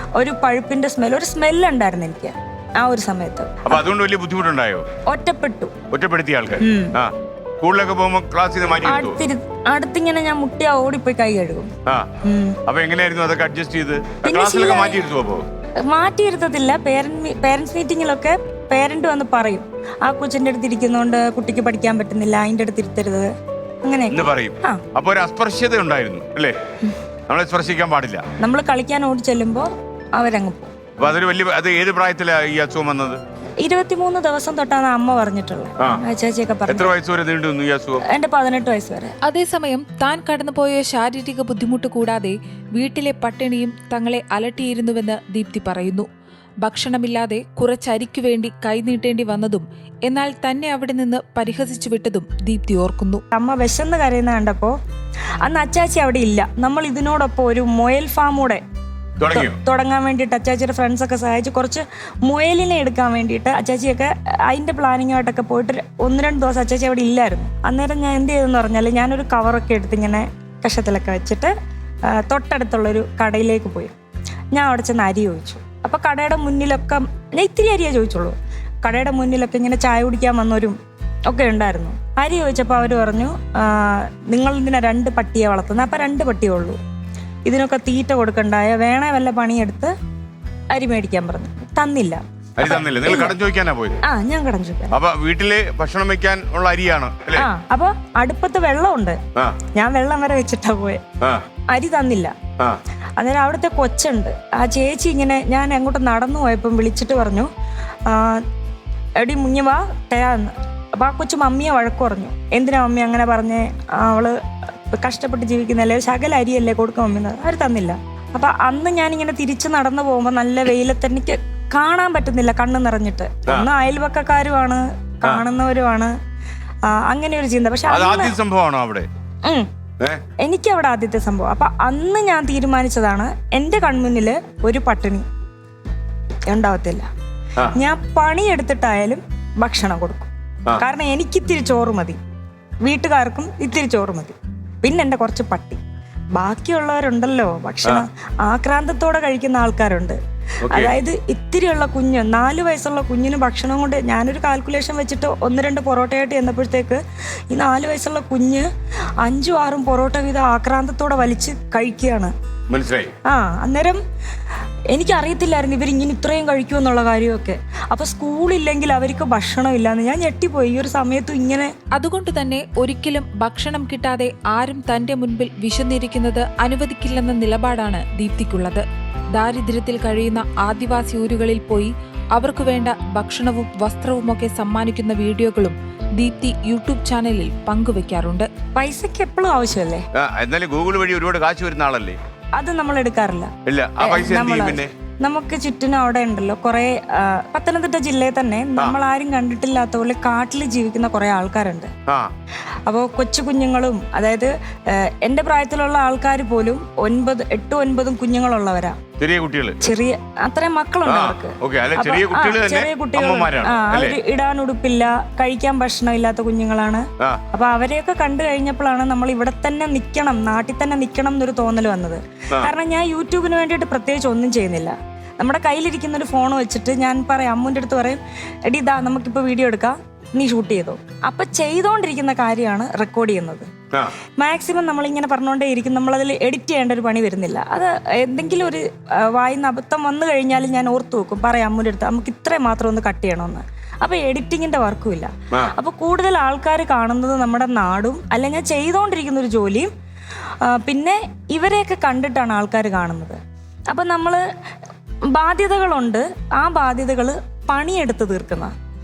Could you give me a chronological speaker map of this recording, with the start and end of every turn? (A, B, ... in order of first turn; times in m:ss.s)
0:00.2-0:03.8 A
0:03.6-0:04.9 B
0:05.1-0:05.8 A
0:05.9-0:09.2 B
0:06.6-0:07.0 A
0:08.8-0:11.7 A
0:12.2-0:12.6 A
0:12.7-0:15.4 B
0:14.2-0:15.0 A
0:15.9-0:23.3 A
0:23.8-0:24.8 A
0:24.1-0:26.6 B
0:27.3-0:28.3 B
0:28.4-0:30.7 A
0:31.0-0:33.2 B
0:33.6-0:37.0 A
0:36.7-0:38.0 B
0:38.0-0:39.2 A
0:39.2-0:46.1 C
0:46.6-0:53.2 C
0:53.3-0:54.8 A
0:55.4-0:58.6 A
0:59.2-0:59.5 B
0:59.3-1:11.5 A
1:12.1-1:13.9 A
1:14.5-1:20.8 A
1:21.3-1:26.8 A
1:27.5-1:29.9 A
1:30.7-1:33.4 A
1:32.6-1:34.0 B
1:34.0-1:35.0 A
1:34.9-1:37.5 B
1:37.4-1:39.2 A
1:39.7-1:41.0 A
1:41.7-1:42.4 A
1:43.2-1:47.5 A
1:48.1-1:48.4 A
1:49.2-1:54.4 A
1:54.9-2:06.1 A
2:06.9-2:08.4 A
2:07.9-2:09.1 B
2:10.4-2:15.3 A
2:16.5-2:17.1 A
2:17.7-2:22.2 A
2:22.8-2:25.8 A
2:26.3-2:38.7 A
2:30.6-2:31.0 B
2:39.2-2:42.3 A
2:42.7-2:43.1 B
2:43.3-2:44.0 A
2:44.9-2:51.7 A
2:51.9-2:58.8 C
2:59.3-3:08.5 C
3:08.8-3:10.0 A
3:10.2-3:12.2 B
3:12.6-3:21.9 A
3:13.7-3:14.9 B
3:22.9-3:29.0 A
3:29.2-3:29.8 B
3:29.8-3:53.7 A
3:31.1-3:34.2 B
3:54.4-4:09.9 A
4:10.6-4:13.4 A
4:13.9-4:14.4 A
4:15.3-4:18.7 A